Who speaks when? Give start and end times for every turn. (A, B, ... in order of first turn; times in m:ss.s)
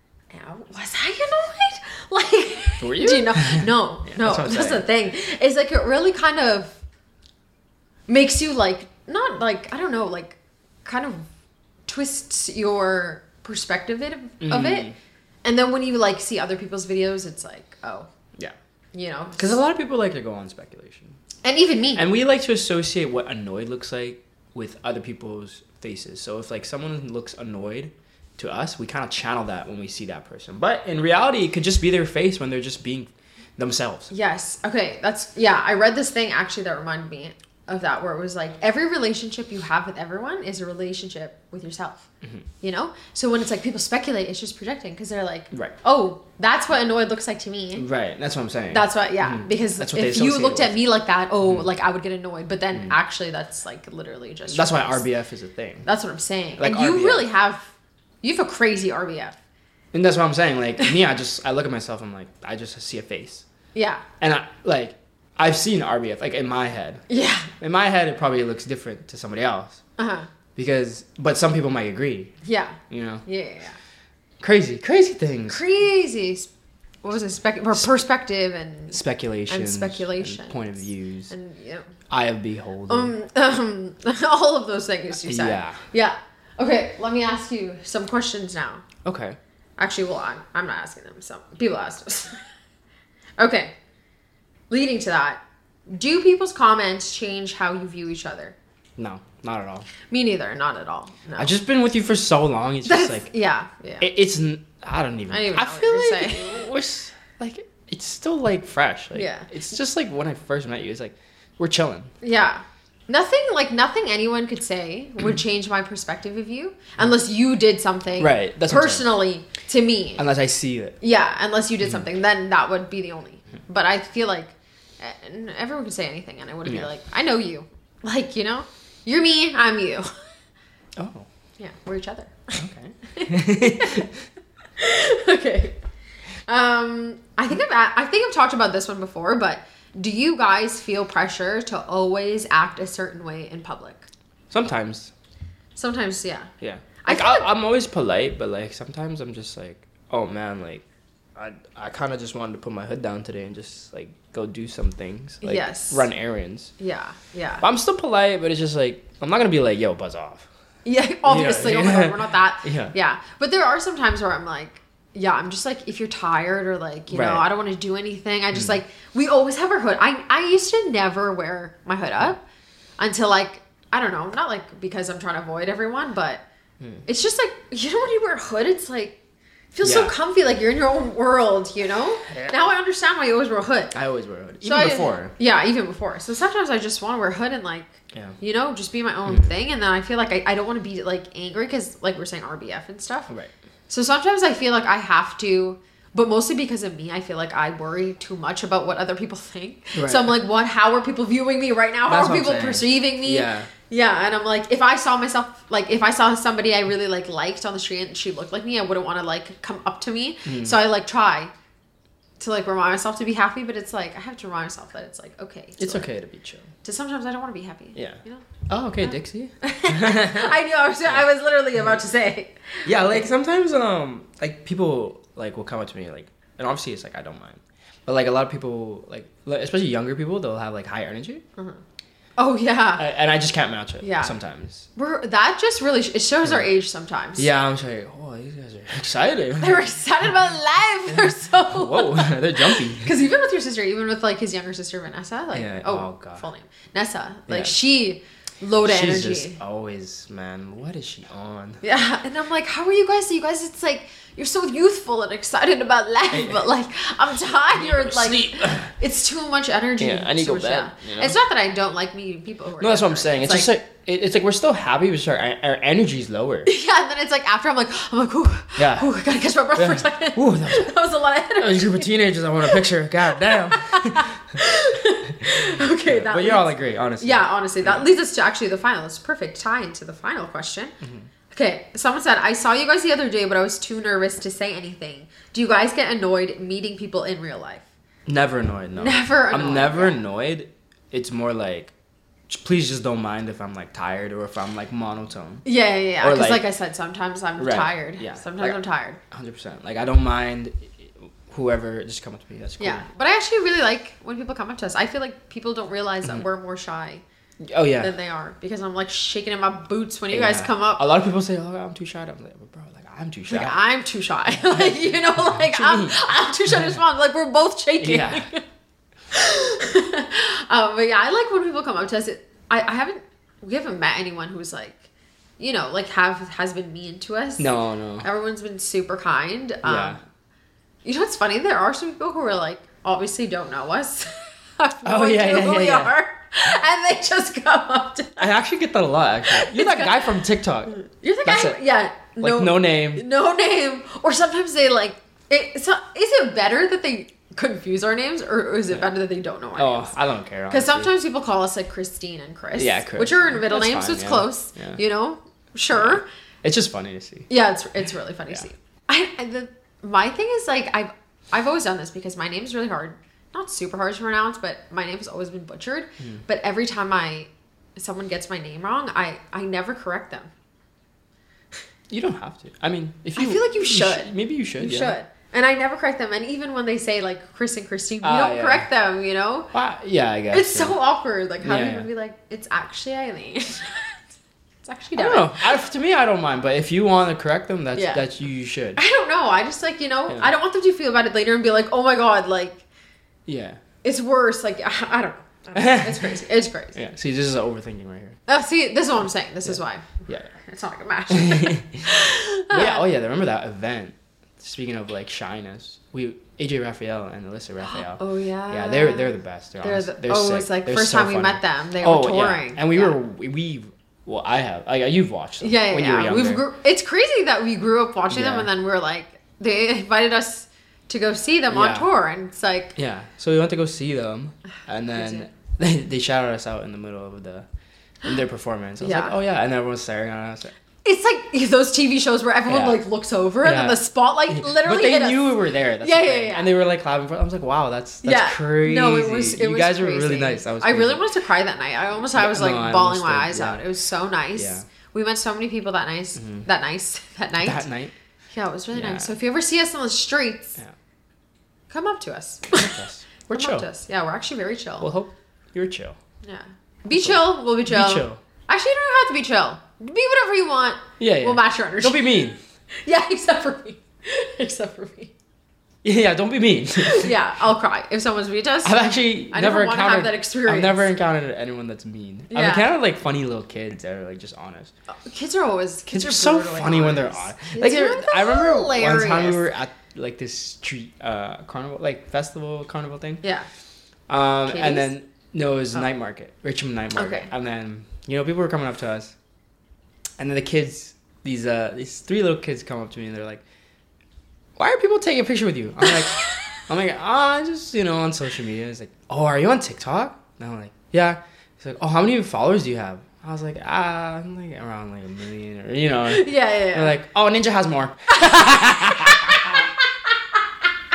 0:00.3-0:06.8 A
0:02.8-0:04.9 B
0:08.1-0:11.2 A
0:11.9-0:14.9 A
0:14.4-0:15.0 B
0:15.4-0:18.1 A
0:18.9-0:19.6 A
0:19.4-0:21.2 B
0:21.4-0:22.0 A
0:22.0-0:34.1 B
0:34.1-0:42.1 A
0:42.6-0:47.9 A
0:47.8-0:50.8 B
0:48.7-0:55.0 A
0:51.4-0:51.7 B
0:54.5-0:55.8 B
0:55.9-0:57.7 A
0:56.6-0:57.3 B
0:58.2-0:59.4 A
0:59.9-1:03.5 B
1:03.8-1:04.0 A
1:04.2-1:07.0 B
1:07.1-1:07.5 A
1:07.6-1:09.8 B
1:10.0-1:10.3 A
1:10.6-1:12.3 B
1:12.4-1:13.8 A
1:12.9-1:13.2 B
1:14.4-1:15.6 B
1:15.5-1:16.5 A
1:17.0-1:21.9 A
1:18.9-1:21.3 B
1:22.1-1:23.1 B
1:22.9-1:28.9 A
1:25.2-1:25.8 B
1:29.0-1:29.4 B
1:29.8-1:32.4 A
1:33.4-1:33.7 A
1:34.7-1:38.6 A
1:39.0-1:39.9 B
1:40.1-1:41.6 A
1:41.4-1:43.3 B
1:42.8-1:44.1 A
1:44.0-1:52.1 B
1:45.3-1:46.6 A
1:49.2-1:49.5 A
1:52.2-2:00.2 A
1:58.2-1:59.1 B
2:00.2-2:01.0 B
2:01.0-2:10.1 A
2:11.0-2:11.3 B
2:11.6-2:14.1 A
2:12.6-2:14.1 B
2:14.8-2:15.8 A
2:16.5-2:24.1 A
2:24.5-2:25.1 B
2:25.8-2:26.5 A
2:26.6-2:30.8 B
2:27.0-2:27.5 A
2:31.4-2:36.7 B
2:35.4-2:36.1 A
2:36.8-2:37.6 A
2:37.6-2:40.5 B
2:40.8-2:52.4 A
2:41.3-2:42.9 B
2:47.1-2:47.5 B
2:53.0-2:56.4 A
2:57.1-2:59.2 A
2:59.8-3:04.0 A
2:59.8-3:00.1 B
3:03.9-3:05.3 B
3:04.6-3:13.3 A
3:13.9-3:31.5 A
3:20.0-3:20.3 B
3:22.1-3:23.7 B
3:30.4-3:30.8 B
3:32.4-3:36.1 A
3:35.8-3:36.7 B
3:36.8-3:38.5 A
3:38.0-3:40.6 B
3:39.6-3:43.2 A
3:42.8-3:51.4 B
3:52.4-3:53.0 A
3:53.0-3:54.9 B
3:54.0-3:54.4 A
3:55.0-3:57.5 A
3:57.4-3:59.9 B
3:59.6-4:09.6 A
4:01.1-4:03.1 B
4:05.5-4:06.4 B
4:07.5-4:07.7 B
4:08.8-4:11.8 B
4:11.8-4:23.7 A
4:16.3-4:16.6 B
4:17.7-4:18.9 B
4:20.0-4:21.4 B
4:22.8-4:26.7 B
4:26.7-4:32.1 A
4:28.8-4:29.1 B
4:29.8-4:30.9 B
4:31.6-4:34.3 B
4:33.4-4:41.0 A
4:35.4-4:38.1 B
4:41.0-4:41.3 B
4:41.5-4:47.8 A
4:48.3-4:51.9 B
4:49.0-4:50.2 A
4:52.5-4:55.6 B
4:55.6-4:59.2 A
4:56.2-4:56.6 B
4:57.6-4:58.8 B
4:59.3-5:03.0 B
5:02.8-5:07.2 A
5:07.6-5:08.1 B
5:08.0-5:11.1 A
5:10.3-5:13.8 B
5:13.5-5:18.6 A
5:14.5-5:17.0 B
5:18.0-5:18.5 B
5:19.3-5:25.0 A
5:25.6-5:27.7 A
5:27.6-5:28.3 B
5:28.2-5:30.2 A
5:29.8-5:30.2 B
5:31.0-5:38.5 A
5:35.0-5:36.1 B
5:38.4-5:41.8 B
5:39.5-5:40.4 A
5:40.9-5:50.1 A
5:42.4-5:43.2 B
5:49.8-5:51.1 B
5:50.7-5:56.2 A
5:52.8-5:55.0 B
5:55.9-5:57.5 B
5:57.5-6:10.5 A
6:12.1-6:15.2 B
6:13.4-6:19.7 A
6:18.2-6:18.9 B
6:19.7-6:21.0 B
6:20.5-6:24.2 A
6:21.6-6:22.1 B
6:24.8-6:25.8 A
6:25.2-6:29.0 B
6:28.0-6:28.2 A
6:29.0-6:32.8 A
6:30.3-6:30.5 B
6:33.5-6:33.8 B
6:34.0-6:37.0 A
6:35.8-6:36.4 B
6:37.0-6:38.4 B
6:38.5-6:43.0 A
6:39.6-6:40.5 B
6:41.3-6:42.2 B
6:42.7-6:56.6 B
6:47.8-6:53.2 A
6:55.6-7:02.9 A
6:58.3-6:58.7 B
7:01.7-7:02.1 B
7:03.0-7:07.7 B
7:05.1-7:05.5 A
7:08.2-7:10.7 B
7:09.0-7:09.4 A
7:11.0-7:16.7 A
7:12.7-7:13.0 B
7:13.6-7:21.2 B
7:18.2-7:27.9 A
7:22.3-7:23.8 B
7:24.6-7:24.9 B
7:26.4-7:26.6 B
7:27.6-7:28.1 B
7:28.5-7:30.8 A
7:28.9-7:29.3 B
7:31.9-7:35.1 A
7:32.8-7:33.9 B
7:35.0-7:36.2 B
7:36.4-7:42.4 A
7:37.1-7:38.4 B
7:41.2-7:42.6 B
7:43.0-7:45.3 A
7:46.0-7:47.3 B
7:47.0-7:51.1 A
7:48.8-7:54.9 B
7:52.5-7:52.9 A
7:55.2-7:59.6 A
7:56.1-8:03.4 B
8:04.3-8:09.4 B
8:04.7-8:05.1 A
8:07.2-8:07.5 A
8:10.4-8:13.6 B
8:14.8-8:29.9 B
8:16.1-8:16.8 A
8:26.3-8:27.2 A
8:28.5-8:30.3 A